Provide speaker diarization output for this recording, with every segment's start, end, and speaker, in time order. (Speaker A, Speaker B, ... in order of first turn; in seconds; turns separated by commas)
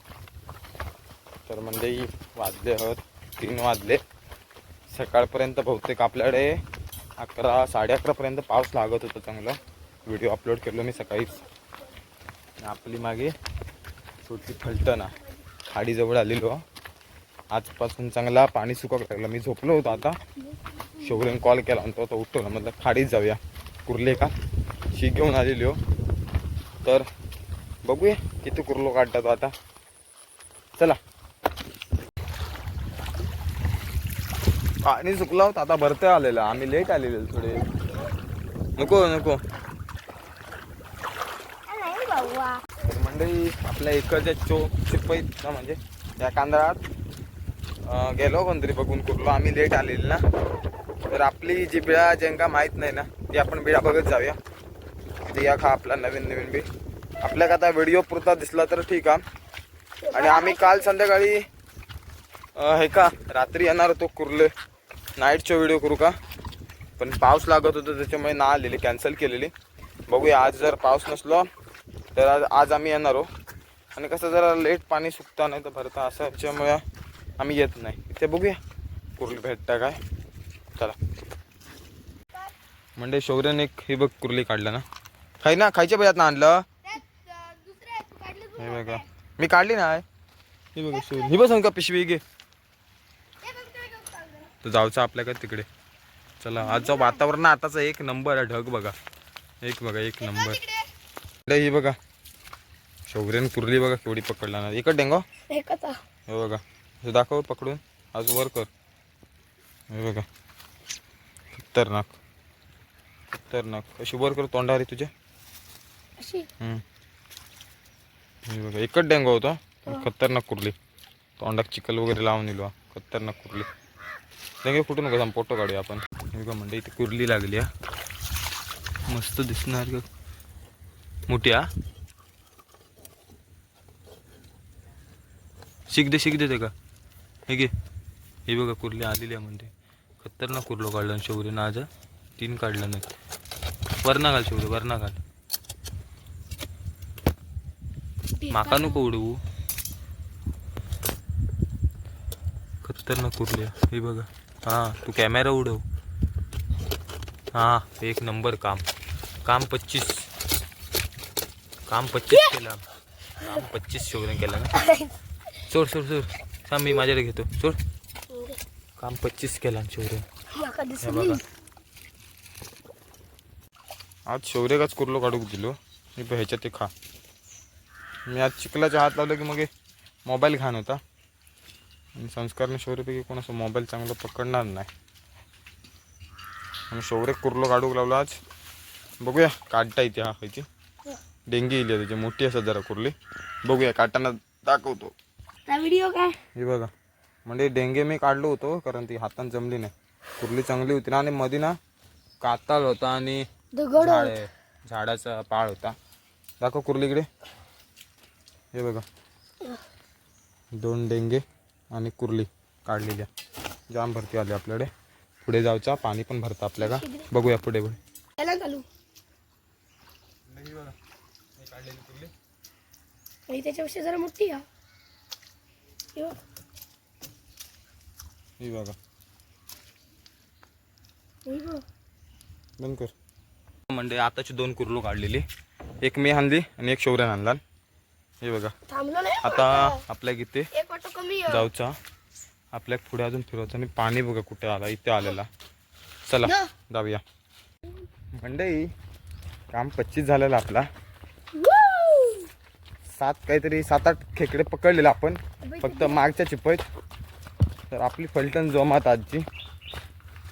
Speaker A: 1.5-4.0, Speaker A: 4.9-6.5, Speaker A: 7.2-11.4, Speaker A: 12.6-13.3, Speaker A: 14.2-15.1, Speaker A: 15.7-16.6, Speaker A: 17.5-20.2, Speaker B: 20.5-21.1, Speaker A: 21.0-24.3, Speaker A: 24.9-25.8, Speaker A: 27.8-29.5, Speaker A: 34.8-37.7, Speaker A: 38.8-39.4, Speaker B: 41.7-42.6, Speaker A: 42.8-46.8, Speaker A: 47.9-50.2, Speaker A: 51.1-54.4, Speaker A: 55.2-56.6, Speaker A: 57.2-59.2, Speaker B: 60.0-60.9, Speaker A: 60.1-61.4, Speaker A: 62.6-64.5, Speaker A: 65.2-66.2, Speaker A: 67.0-69.5, Speaker A: 70.1-71.5, Speaker A: 72.1-73.3, Speaker A: 73.9-76.8, Speaker A: 77.4-78.6, Speaker A: 79.2-80.0, Speaker A: 83.0-84.8, Speaker A: 85.4-86.6, Speaker B: 86.9-89.0, Speaker A: 88.6-90.0, Speaker A: 90.7-92.2, Speaker B: 93.4-94.5, Speaker A: 94.6-95.7, Speaker A: 96.4-99.0, Speaker B: 96.7-97.2, Speaker A: 99.6-100.6, Speaker A: 101.5-102.0, Speaker A: 103.1-105.2, Speaker B: 105.5-106.0, Speaker A: 106.3-108.7, Speaker A: 109.9-110.2, Speaker A: 111.5-112.1, Speaker A: 113.3-115.1, Speaker B: 116.2-116.5, Speaker A: 118.5-120.7, Speaker A: 121.4-123.7, Speaker A: 124.6-127.7, Speaker A: 129.1-130.0, Speaker A: 131.3-131.6, Speaker A: 135.9-136.7, Speaker A: 138.5-143.1, Speaker A: 144.0-145.2, Speaker B: 148.4-149.1, Speaker A: 148.5-149.4, Speaker A: 152.8-155.8, Speaker A: 157.5-158.8, Speaker A: 159.4-160.3, Speaker A: 161.9-162.8, Speaker A: 163.4-164.7, Speaker B: 164.7-165.1, Speaker A: 165.7-167.8, Speaker A: 169.0-170.2, Speaker B: 170.5-171.4, Speaker A: 171.0-171.4, Speaker A: 174.3-176.9, Speaker A: 178.3-179.7, Speaker A: 180.3-181.0, Speaker A: 182.2-184.9, Speaker A: 186.9-188.3, Speaker A: 189.2-190.7, Speaker A: 191.5-193.1, Speaker A: 193.6-195.1, Speaker B: 195.7-196.3, Speaker A: 196.5-196.9, Speaker A: 197.4-201.8, Speaker A: 202.4-203.4, Speaker B: 203.8-204.3, Speaker A: 204.0-205.9, Speaker A: 206.6-207.3, Speaker A: 208.7-209.0, Speaker A: 210.8-211.4, Speaker A: 211.9-213.3, Speaker A: 213.9-214.9, Speaker A: 215.4-218.0, Speaker B: 216.8-217.3, Speaker B: 218.4-218.8, Speaker A: 220.5-220.9, Speaker A: 221.6-222.3, Speaker B: 223.5-224.6, Speaker A: 228.6-228.9, Speaker B: 231.4-231.8, Speaker A: 232.8-233.1, Speaker A: 233.9-235.4, Speaker A: 236.0-237.6, Speaker A: 238.4-238.7, Speaker B: 238.9-240.0, Speaker A: 239.4-240.7, Speaker B: 240.7-241.7, Speaker A: 241.5-241.9, Speaker A: 242.7-245.5, Speaker A: 246.2-247.2, Speaker B: 246.4-246.7, Speaker A: 248.4-248.9, Speaker A: 249.7-250.9, Speaker B: 251.6-252.5, Speaker A: 253.1-256.8, Speaker B: 255.6-256.2, Speaker A: 257.9-259.4